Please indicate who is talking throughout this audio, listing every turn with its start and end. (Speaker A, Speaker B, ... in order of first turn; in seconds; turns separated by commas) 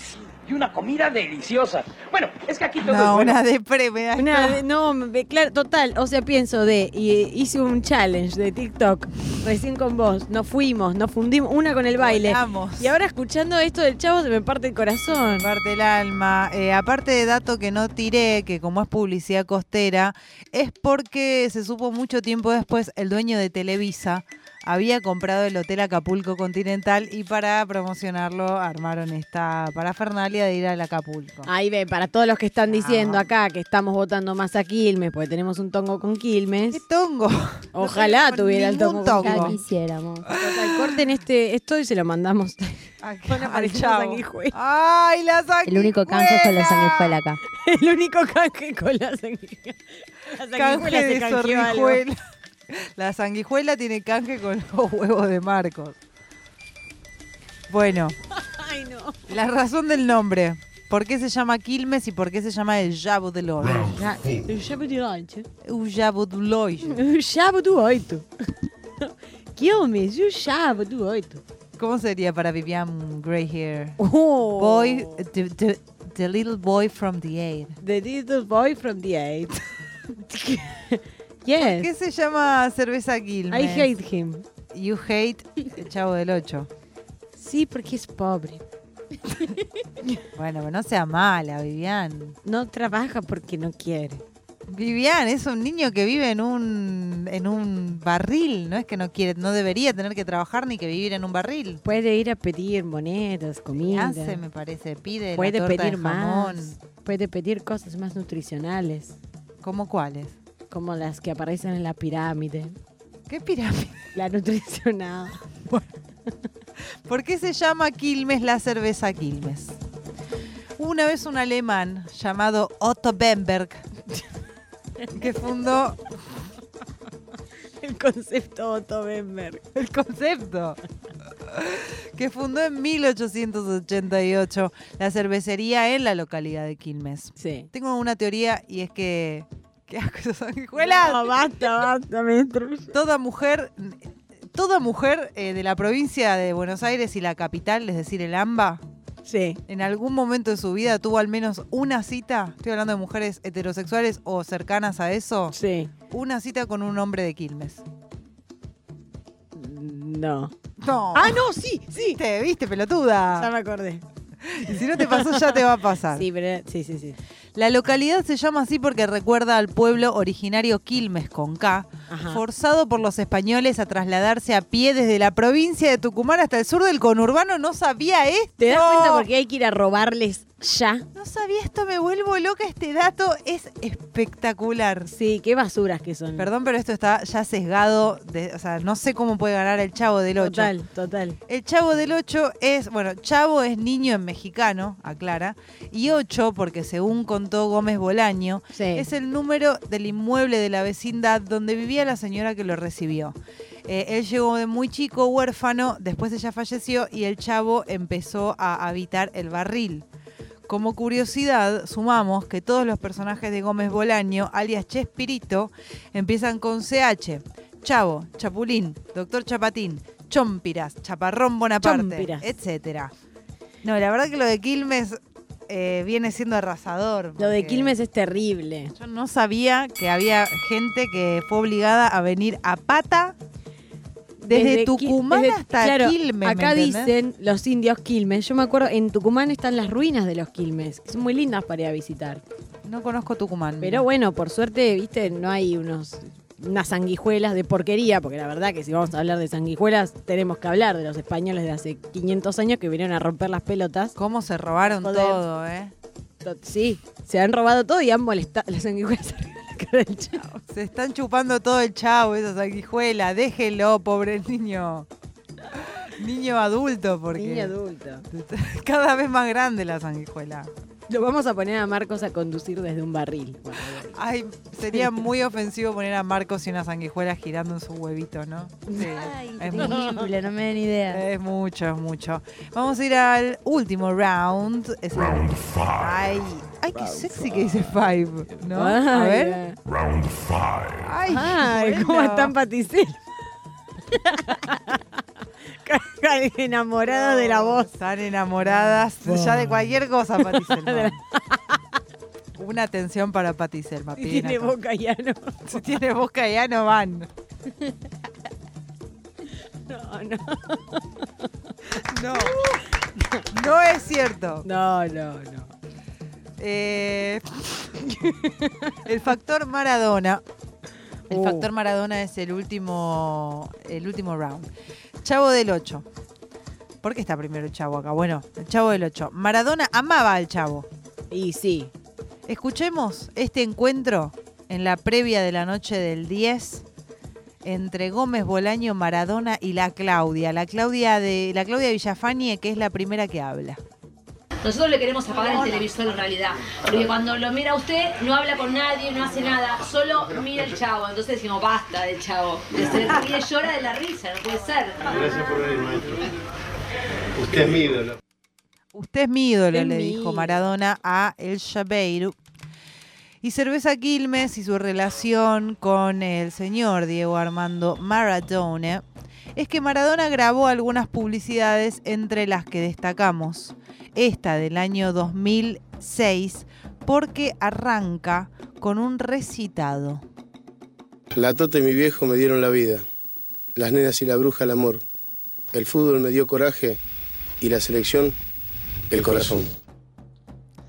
Speaker A: 0.5-3.4, Speaker B: 2.8-4.6, Speaker C: 4.2-15.5, Speaker B: 12.0-12.9, Speaker B: 15.4-31.5, Speaker C: 31.4-36.8, Speaker B: 32.7-33.2, Speaker B: 36.7-39.6, Speaker C: 37.8-39.6, Speaker D: 39.2-40.3, Speaker C: 40.3-44.5, Speaker B: 40.6-40.9, Speaker B: 43.0-47.2, Speaker D: 45.7-47.4, Speaker C: 47.5-52.0, Speaker B: 50.5-52.2, Speaker B: 52.7-56.0, Speaker B: 57.7-58.1, Speaker C: 58.4-59.2, Speaker B: 59.3-64.0, Speaker C: 63.6-65.5, Speaker E: 63.8-64.5, Speaker B: 65.7-67.0, Speaker C: 66.8-68.3, Speaker C: 69.0-71.4, Speaker B: 71.8-74.0, Speaker C: 74.0-75.2, Speaker B: 74.6-77.8, Speaker C: 77.8-79.6, Speaker C: 80.3-81.9, Speaker B: 81.6-83.9, Speaker C: 83.5-84.5, Speaker B: 84.7-86.7, Speaker C: 87.4-88.6, Speaker C: 89.3-89.6, Speaker B: 90.3-92.4, Speaker C: 92.5-94.2, Speaker B: 94.7-101.8, Speaker C: 101.8-104.4, Speaker B: 103.8-106.8, Speaker C: 105.3-109.2, Speaker B: 109.6-110.4, Speaker C: 110.7-112.8, Speaker B: 113.3-114.0, Speaker C: 114.1-115.6, Speaker B: 117.1-119.8, Speaker B: 120.8-123.9, Speaker B: 125.1-126.0, Speaker C: 127.8-129.6, Speaker B: 129.8-130.8, Speaker B: 131.5-141.3, Speaker C: 137.4-137.7, Speaker C: 140.8-142.9, Speaker B: 142.9-148.8, Speaker C: 149.3-149.6, Speaker B: 149.7-155.6, Speaker C: 155.5-155.9, Speaker B: 156.1-157.8, Speaker C: 159.6-160.5, Speaker B: 160.8-161.4, Speaker C: 161.1-162.2, Speaker B: 162.2-163.5, Speaker C: 163.3-164.0, Speaker B: 164.4-166.2, Speaker C: 164.7-167.2, Speaker B: 167.6-179.3, Speaker C: 172.1-172.4, Speaker C: 178.6-181.1, Speaker B: 181.2-185.1, Speaker C: 185.1-186.5, Speaker B: 186.4-190.7, Speaker C: 190.4-191.4, Speaker B: 191.5-203.4, Speaker C: 198.7-199.1, Speaker B: 203.9-210.1, Speaker B: 210.7-223.1, Speaker C: 221.8-222.5, Speaker B: 223.8-228.0, Speaker C: 227.4-228.9, Speaker B: 229.0-233.4, Speaker C: 234.4-242.4, Speaker B: 234.5-237.1, Speaker B: 242.8-244.1, Speaker C: 243.8-254.1, Speaker B: 254.2-255.9, Speaker C: 254.8-255.4, Speaker C: 256.4-260.6, Speaker B: 260.7-265.1, Speaker B: 266.0-267.7, Speaker C: 267.3-268.3, Speaker B: 268.3-270.7, Speaker C: 271.1-274.1, Speaker B: 274.1-280.1, Speaker C: 278.9-280.3, Speaker D: 279.6-281.2, Speaker B: 281.1-289.6, Speaker E: 285.2-285.9, Speaker C: 287.0-288.1, Speaker C: 288.6-289.8, Speaker E: 289.9-291.1, Speaker B: 291.0-292.5, Speaker C: 291.3-293.2, Speaker C: 294.1-295.0, Speaker C: 295.8-297.9, Speaker B: 297.1-301.2, Speaker C: 298.6-301.8, Speaker B: 302.6-304.7, Speaker C: 304.2-305.8, Speaker B: 305.7-307.3, Speaker C: 309.9-311.3, Speaker C: 312.0-312.8, Speaker B: 312.1-312.6, Speaker B: 313.5-314.7, Speaker C: 314.6-315.7, Speaker B: 316.6-317.9, Speaker C: 318.1-318.9, Speaker B: 319.1-320.4, Speaker B: 321.3-324.7, Speaker C: 321.3-321.7, Speaker B: 325.2-326.1, Speaker B: 327.0-330.9, Speaker C: 331.3-331.9, Speaker B: 332.5-336.9, Speaker B: 337.6-343.8, Speaker F: 344.6-355.1, Speaker G: 355.4-356.1, Speaker G: 357.4-358.0, Speaker B: 358.9-362.4, Speaker C: 359.7-360.6, Speaker B: 363.4-369.1, Speaker B: 369.6-380.2, Speaker G: 381.3-383.1, Speaker G: 383.8-385.0, Speaker G: 385.7-387.0, Speaker G: 387.6-388.4, Speaker G: 389.1-389.7